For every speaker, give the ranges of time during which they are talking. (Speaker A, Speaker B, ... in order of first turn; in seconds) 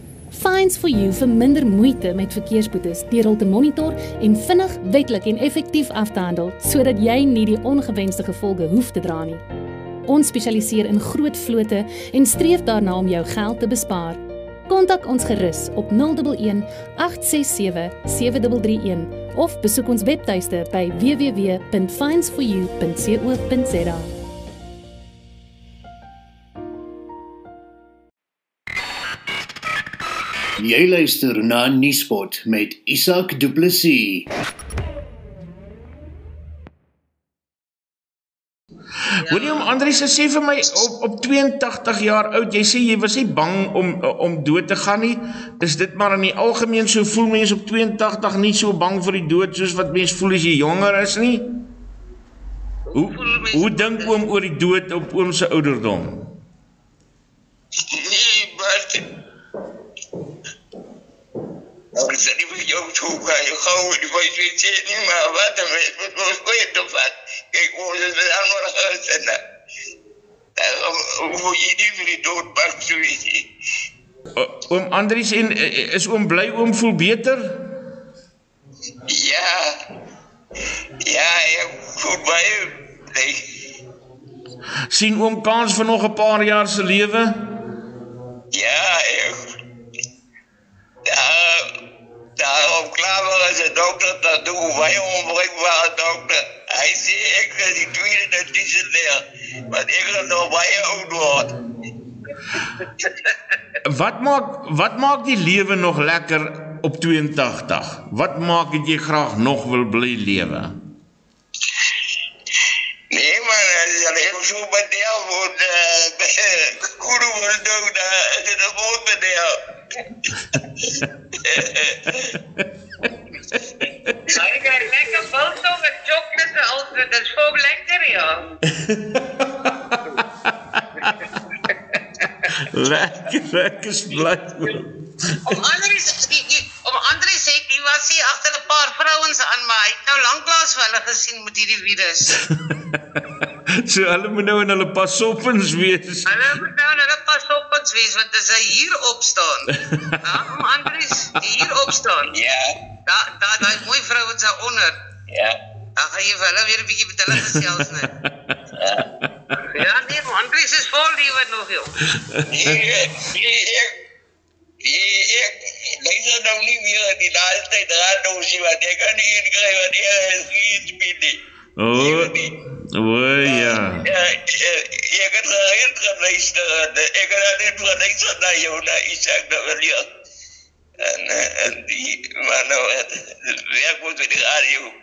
Speaker A: 0.3-9.4, 10.1-24.1
Speaker B: 30.6-34.3
Speaker C: 39.2-51.4, 52.9-56.2, 74.3-77.5, 84.9-87.3, 103.8-110.7, 123.8-124.1, 128.8-131.3, 132.5-134.9, 142.3-143.2, 143.8-146.6, 157.3-157.6, 171.8-172.4, 172.9-174.1
Speaker D: 39.2-39.6, 52.9-54.2, 124.3-128.4, 135.4-142.4, 146.3-152.3, 153.1-154.9, 156.0-158.1, 159.6-161.9
Speaker E: 57.9-59.0, 61.9-69.4, 70.5-73.5, 79.1-79.7, 81.0-82.6, 83.1-83.4, 88.5-89.4, 91.0-91.7, 92.4-101.5, 113.1-119.5, 121.5-122.0, 152.3-152.7, 155.3-155.6, 162.5-163.9, 164.8-165.5, 166.0-171.3, 172.0-172.5, 174.1-180.0, 181.0-184.9